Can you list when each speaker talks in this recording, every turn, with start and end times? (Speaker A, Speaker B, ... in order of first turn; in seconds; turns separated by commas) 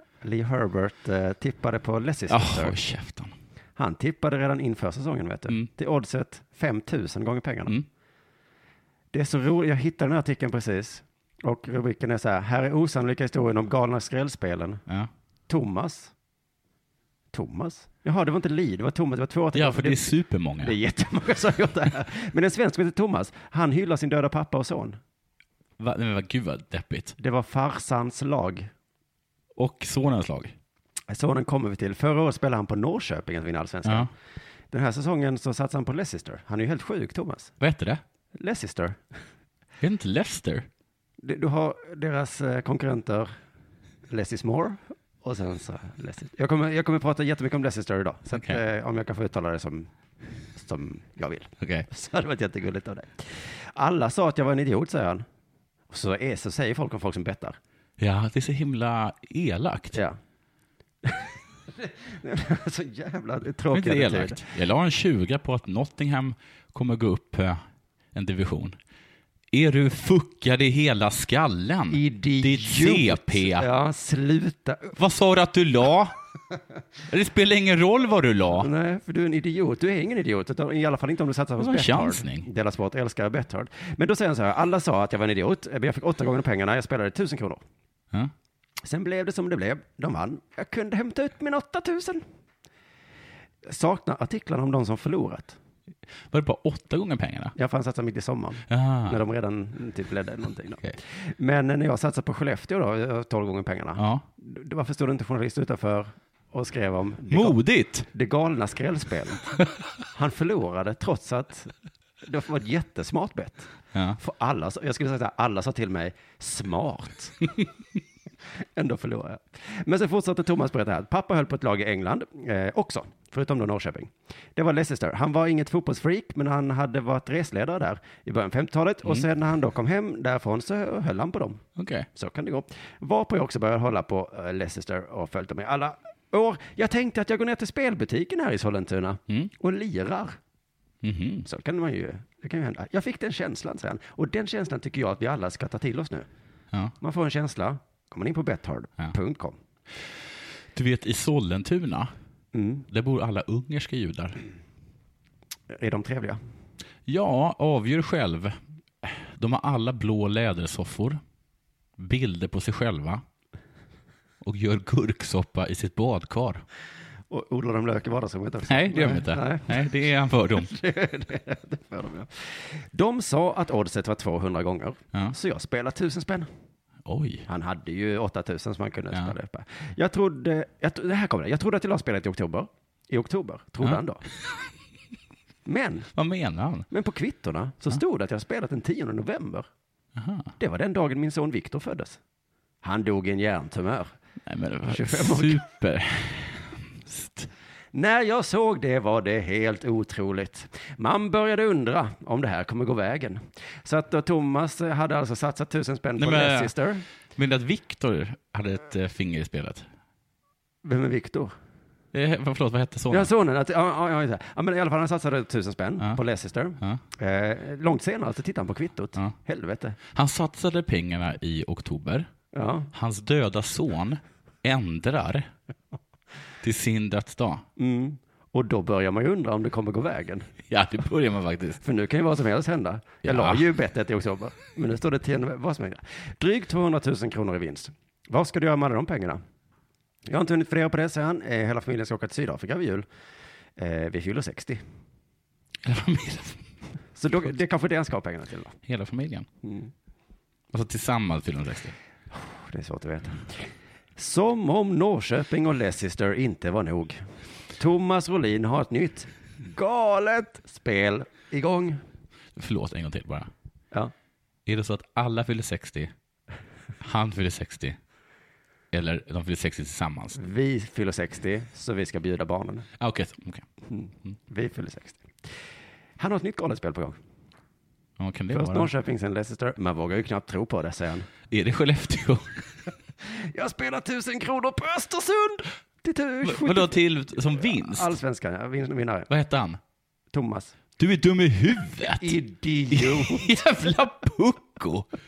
Speaker A: 0.2-2.8, Speaker B: 2.3-3.3, Speaker A: 3.8-7.8, Speaker A: 9.1-14.8, Speaker A: 15.5-16.1, Speaker A: 17.3-25.0, Speaker B: 19.5-20.8, Speaker B: 25.8-27.1, Speaker A: 27.2-28.7, Speaker B: 29.5-30.5, Speaker A: 31.1-34.1, Speaker B: 33.8-34.1, Speaker A: 34.7-37.5, Speaker B: 37.6-38.0, Speaker A: 38.4-39.0, Speaker B: 39.8-40.7, Speaker A: 41.2-43.3, Speaker A: 44.1-49.9, Speaker B: 48.3-48.6, Speaker A: 50.5-55.2, Speaker B: 51.6-51.9, Speaker A: 55.9-57.6, Speaker B: 58.0-60.0, Speaker A: 61.8-64.4, Speaker B: 63.7-67.6, Speaker B: 68.1-68.8, Speaker B: 69.5-73.7, Speaker A: 71.9-75.0, Speaker B: 75.0-76.2, Speaker B: 77.1-78.7, Speaker A: 78.6-87.6, Speaker B: 81.6-82.5, Speaker A: 88.8-92.2, Speaker A: 93.7-95.6, Speaker B: 96.3-97.5, Speaker A: 97.5-107.6, Speaker B: 98.7-99.2, Speaker B: 104.0-104.2, Speaker B: 107.3-108.1, Speaker A: 108.1-109.6, Speaker A: 110.1-117.5, Speaker A: 118.8-131.6, Speaker B: 131.8-132.1, Speaker A: 132.2-140.4, Speaker B: 141.0-141.4, Speaker A: 141.4-146.3, Speaker A: 147.0-149.6, Speaker B: 150.7-152.1, Speaker A: 152.5-152.8, Speaker B: 152.9-154.4, Speaker A: 155.7-156.4, Speaker B: 157.1-161.2, Speaker B: 162.0-163.2, Speaker B: 164.4-166.6, Speaker A: 167.3-169.9, Speaker B: 168.7-170.7, Speaker A: 170.5-176.5, Speaker B: 177.0-177.4, Speaker A: 177.5-184.2, Speaker A: 185.7-186.1, Speaker B: 186.2-186.9, Speaker A: 186.9-189.7, Speaker B: 190.2-190.5, Speaker A: 190.6-192.2, Speaker A: 192.8-194.1, Speaker B: 194.5-197.5, Speaker A: 194.9-195.6, Speaker A: 197.9-207.0, Speaker B: 206.2-206.7, Speaker B: 207.3-209.9, Speaker A: 210.8-211.5, Speaker B: 212.1-213.3, Speaker A: 213.1-220.0, Speaker B: 220.1-222.3, Speaker A: 222.5-222.9, Speaker B: 222.9-225.5, Speaker B: 226.6-227.6, Speaker A: 227.8-230.5, Speaker B: 230.7-231.8, Speaker A: 231.8-239.4, Speaker B: 233.2-233.6, Speaker A: 240.3-243.1, Speaker A: 243.8-244.8, Speaker B: 245.8-246.6, Speaker A: 247.2-248.8, Speaker B: 248.9-249.5, Speaker A: 249.6-249.9, Speaker B: 250.7-251.9, Speaker A: 252.3-257.2, Speaker A: 257.8-262.0, Speaker B: 262.6-263.5, Speaker B: 264.6-266.1, Speaker B: 267.0-268.0, Speaker B: 268.9-270.4, Speaker A: 270.4-272.9, Speaker B: 273.0-273.6, Speaker A: 273.9-275.5, Speaker A: 276.2-277.2, Speaker B: 278.2-278.9, Speaker A: 278.5-281.3, Speaker B: 281.5-282.6, Speaker A: 283.3-289.3, Speaker B: 286.4-288.2, Speaker B: 289.3-289.8, Speaker A: 290.3-290.8, Speaker B: 291.0-292.4, Speaker A: 292.1-293.5, Speaker B: 292.9-295.1